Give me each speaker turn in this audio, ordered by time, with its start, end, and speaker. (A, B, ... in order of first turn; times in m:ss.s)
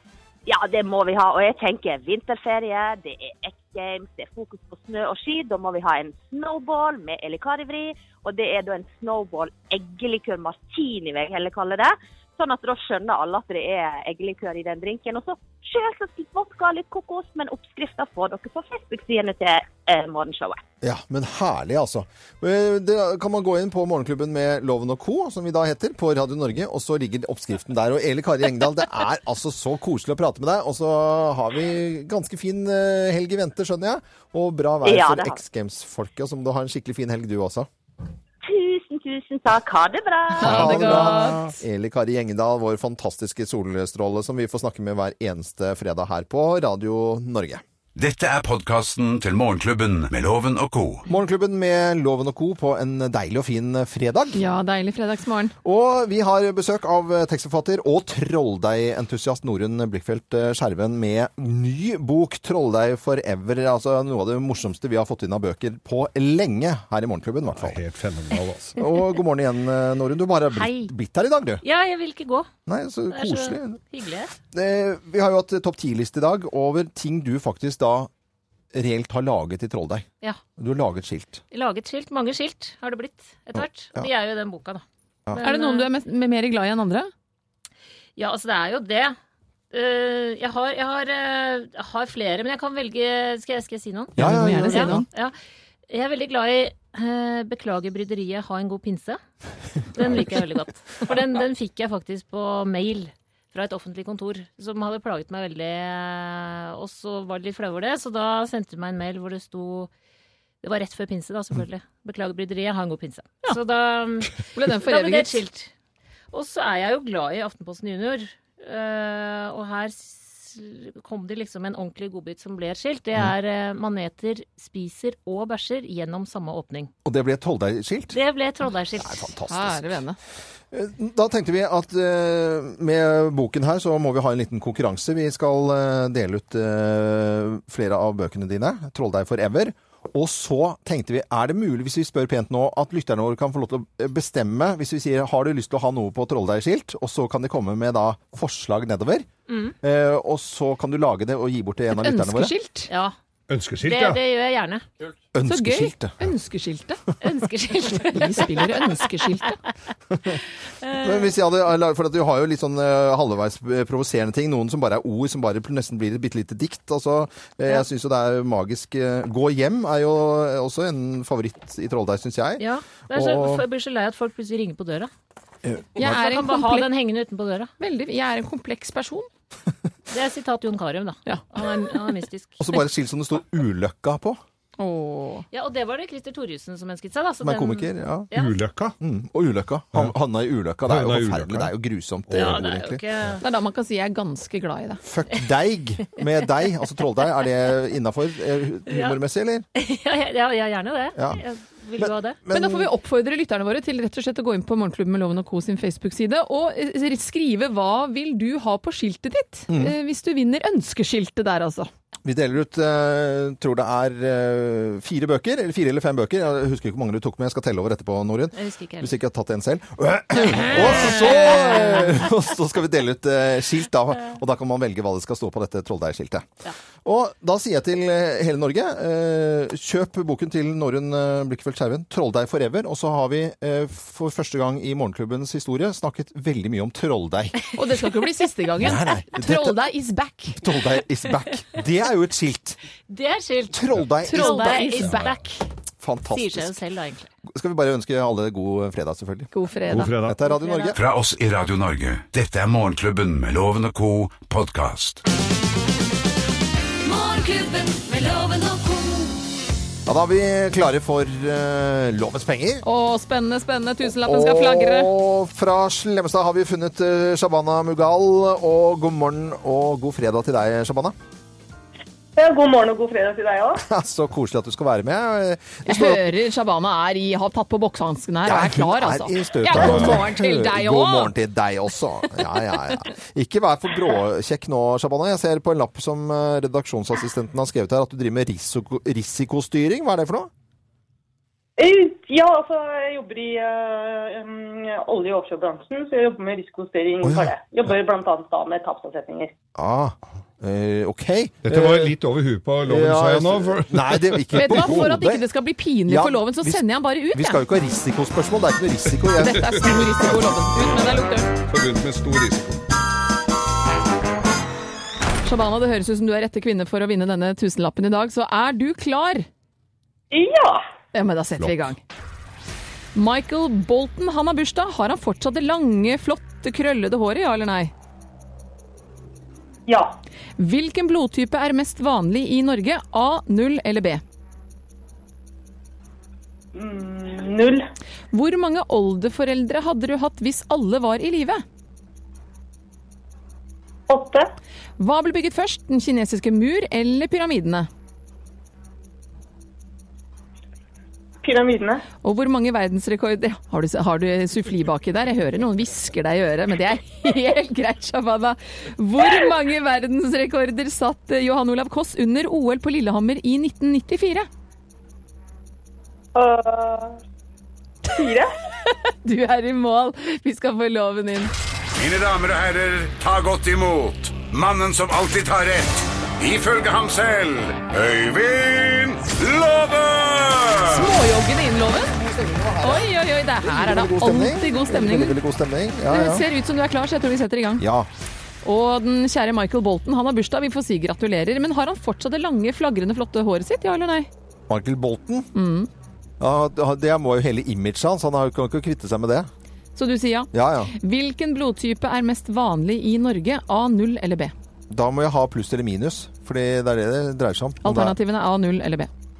0:00.4-0:20.6 A
0:20.8-0:37.7 B
0:34.8-0:35.4 A
0:38.4-0:41.1 A
0:40.4-0:41.5 C
0:40.4-0:47.6 B
0:48.0-0:51.0 D
0:51.1-0:54.4 B
0:54.3-0:55.5 C
0:55.6-1:07.8 B
1:07.5-1:08.8 E
1:08.8-1:11.6 B
1:10.5-1:10.9 F
1:11.6-1:12.5 F
1:12.7-1:13.8 B
1:13.1-1:14.3 F
1:14.5-1:18.1 B
1:18.7-1:20.0 B
1:20.6-1:21.4 B
1:21.5-1:25.9 F
1:23.6-1:24.1 B
1:25.4-1:27.1 C
1:28.2-1:29.2 F
1:29.7-1:35.3 F
1:34.2-1:35.0 B
1:34.2-1:35.0 C
1:35.9-1:39.2 F
1:39.9-1:49.9 F
1:50.6-1:55.7 F
1:54.5-1:55.4 C
1:56.3-2:06.9 F
2:07.0-2:08.2 B
2:08.1-2:09.3 F
2:09.0-2:10.0 B
2:09.5-2:10.2 C
2:10.7-2:29.3 B
2:29.5-2:29.7 F
2:29.8-2:32.5 B
2:31.9-2:32.9 C
2:32.9-2:33.1 F
2:33.5-2:34.2 E
2:33.8-2:34.8 F
2:35.3-2:36.3 B
2:35.4-2:37.0 C
2:37.2-2:39.1 F
2:38.1-2:39.6 C
2:40.8-2:41.3 F
2:41.0-2:53.6 B
2:52.6-2:55.1 F
2:55.6-2:56.0 B
2:56.0-2:56.9 C
2:56.0-2:57.7 F
2:57.8-2:59.3 C
3:00.1-3:02.6 F
3:02.6-3:04.4 B
3:04.8-3:05.4 C
3:05.5-3:08.6 F
3:07.4-3:08.3 B
3:08.3-3:08.9 E
3:09.0-3:13.0 B
3:10.9-3:11.7 E
3:12.3-3:12.6 E
3:12.3-3:13.4 F
3:13.4-3:15.0 C
3:15.0-3:19.6 B
3:18.9-3:19.2 F
3:19.7-3:22.4 F
3:21.2-3:21.4 B
3:22.0-3:22.9 B
3:22.5-3:31.9 C
3:29.7-3:29.9 B
3:32.2-3:46.5 B
3:38.5-3:39.1 F
3:40.8-3:41.7 F
3:47.0-3:57.6 B
3:57.7-4:00.6 C
3:58.8-3:59.8 B
4:00.6-4:02.8 B
4:03.1-4:05.6 F
4:03.7-4:05.3 B
4:04.2-4:05.3 C
4:06.0-4:06.8 B
4:06.3-4:07.3 F
4:07.4-4:09.5 B
4:09.5-4:10.8 C
4:09.9-4:10.4 E
4:10.2-4:11.0 B
4:10.5-4:10.9 F
4:10.9-4:15.2 D
4:17.0-4:19.4 G
4:20.0-4:22.8 B
4:22.8-4:25.1 C
4:24.2-4:31.2 B
4:32.4-4:33.8 H
4:33.8-4:36.2 B
4:35.8-4:41.3 C
4:38.4-4:50.5 B
4:39.8-4:40.2 E
4:51.8-4:59.5 H
4:57.2-4:57.5 B
4:59.7-5:02.2 B
5:01.6-5:05.1 E
5:02.8-5:05.4 B
5:04.5-5:07.6 C
5:06.0-5:10.0 B
5:09.4-5:11.5 C
5:10.8-5:12.8 E
5:15.4-5:19.4 C
5:20.3-5:20.8 H
5:21.1-5:22.0 C
5:23.1-5:27.9 C
5:29.9-5:30.1 H
5:30.6-5:34.2 C
5:36.7-5:37.8 H
5:38.3-5:41.6 C
5:44.1-5:44.5 H
5:45.0-5:47.9 C
5:51.4-5:52.0 H
5:52.2-6:04.5 C
6:06.3-6:07.2 H
6:08.0-6:08.5 H
6:09.2-6:11.5 C
6:12.0-6:20.9 D
6:20.9-6:22.2 C
6:22.2-6:23.0 B
6:22.8-6:25.4 C
6:23.6-6:26.4 B
6:26.1-6:27.9 C
6:27.8-6:28.1 B
6:28.6-6:34.3 C
6:34.7-6:35.5 B
6:35.5-6:35.9 C
6:36.4-6:39.5 B
6:40.0-6:44.5 C
6:40.5-6:40.9 B
6:44.9-6:48.2 B
6:47.8-6:49.1 C